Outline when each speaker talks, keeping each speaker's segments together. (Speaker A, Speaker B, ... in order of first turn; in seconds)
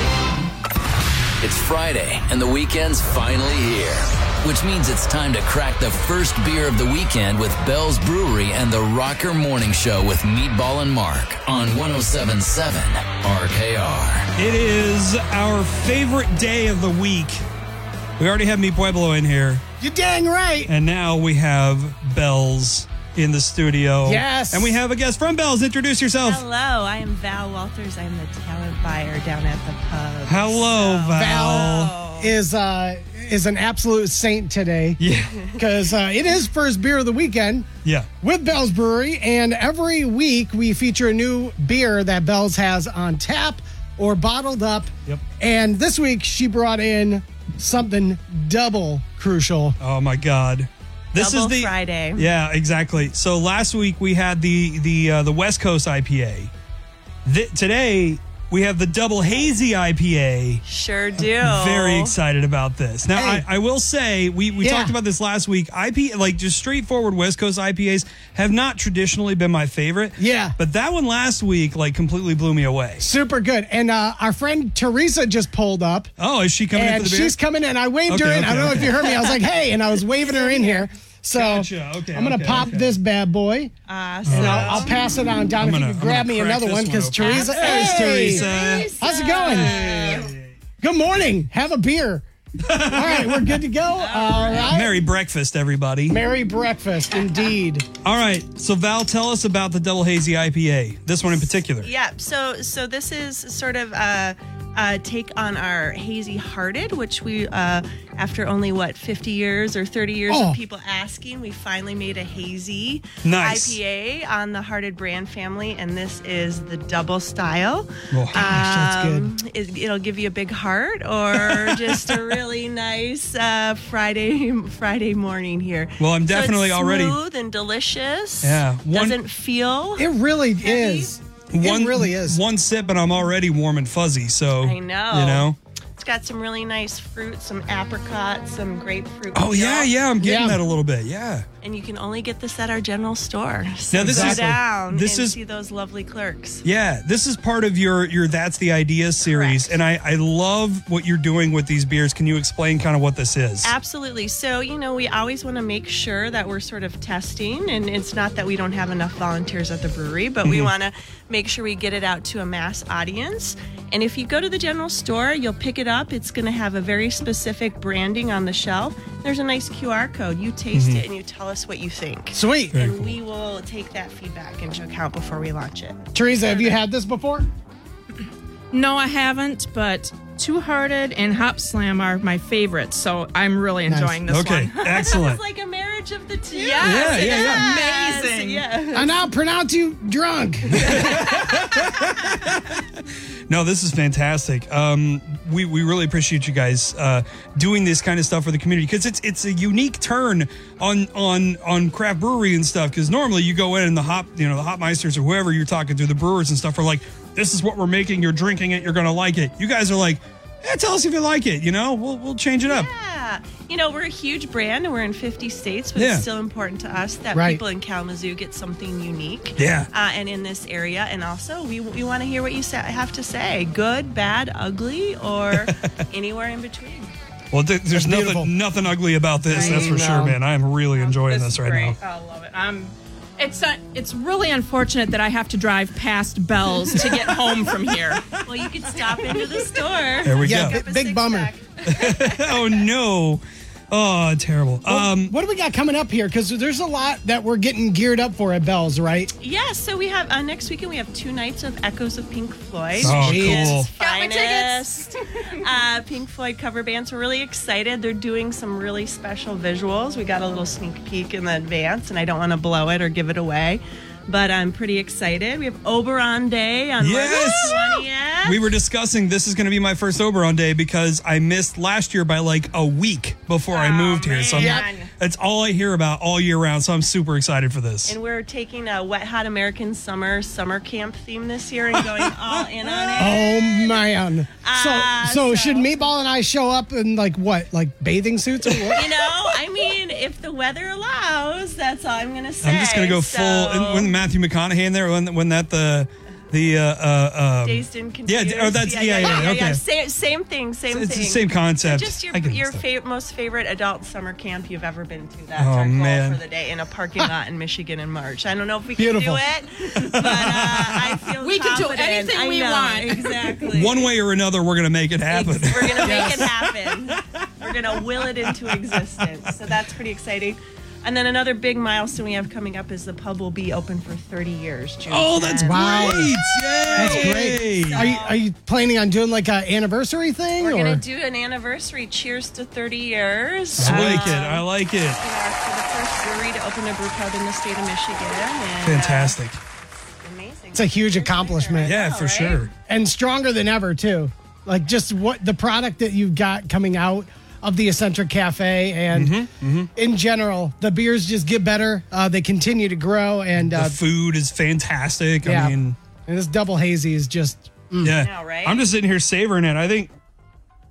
Speaker A: 1.4-14.3
Speaker B: 14.4-17.4, 18.2-19.6, 20.7-26.4, 30.2-31.9, 35.0-35.4, 49.8-56.5, 57.2-60.6, 61.4-73.0, 76.2-77.4, 78.1-79.2, 81.3-82.9, 84.2-84.9, 85.6-88.9, 89.7-90.4, 92.6-93.6, 94.6-96.2, 98.0-101.9, 113.2-113.8, 118.1-118.5, 121.3-121.8, 126.0-127.2, 128.4-129.2, 131.5-135.6, 139.3-141.4, 143.9-145.3, 146.6-153.7, 160.4-160.7, 170.7-171.0, 172.7-173.2, 184.3-185.4, 186.8-187.7, 190.9-192.2, 193.5-212.9, 215.9-216.2, 219.6-219.9, 227.5-232.0, 240.2-240.8, 241.8-245.3, 253.0-253.9, 267.0-278.1, 292.6-299.8, 300.9-302.8, 305.6-306.4, 313.7-316.5, 318.0-319.0, 325.1-328.1, 333.7-335.2, 338.8-339.6, 341.8-342.7, 349.1-349.9, 353.6-356.0, 358.0-360.1
Speaker C: 19.8-20.7, 24.1-24.8, 31.1-35.0, 35.5-37.7, 38.2-49.8, 63.1-63.4, 64.6-64.9, 70.2-70.5, 73.0-76.1, 76.7-83.7, 84.3-89.9, 90.8-92.2, 92.8-95.0, 96.1-97.9, 110.3-110.6, 118.3-119.3, 130.0-132.4, 140.2-140.6, 144.0-144.5, 172.3-172.7, 176.1-177.5, 183.9-184.2, 188.9-191.3, 217.3-217.6, 227.9-228.5, 229.5-230.3, 240.4-241.5, 244.9-249.3, 253.0-253.8, 274.6-274.8, 283.2-289.2, 308.9-309.4, 316.0-316.5, 325.6-326.3, 326.9-331.0, 340.7-342.0, 342.9-349.4, 349.9-354.0, 355.4-355.7, 356.2-358.1
Speaker D: 26.2-32.3, 51.1-52.3, 60.6-62.2, 80.2-80.8, 83.9-85.0, 87.2-90.3, 93.9-94.8, 101.8-130.1, 130.6-131.1, 134.6-140.0, 141.6-146.6, 149.2-149.7, 153.6-176.8, 184.8-189.2, 190.9-191.7, 212.7-227.1, 238.4-242.8, 249.4-268.6, 273.7-275.0, 278.0-286.0, 288.9-294.1, 297.6-314.1, 315.3-326.3, 326.9-328.4, 330.6-339.4, 340.2-342.7, 358.1-358.8
Speaker E: 178.7-184.9, 186.5-188.7, 229.5-230.1, 230.9-239.8, 253.9-255.2, 274.4-275.1, 311.4-313.6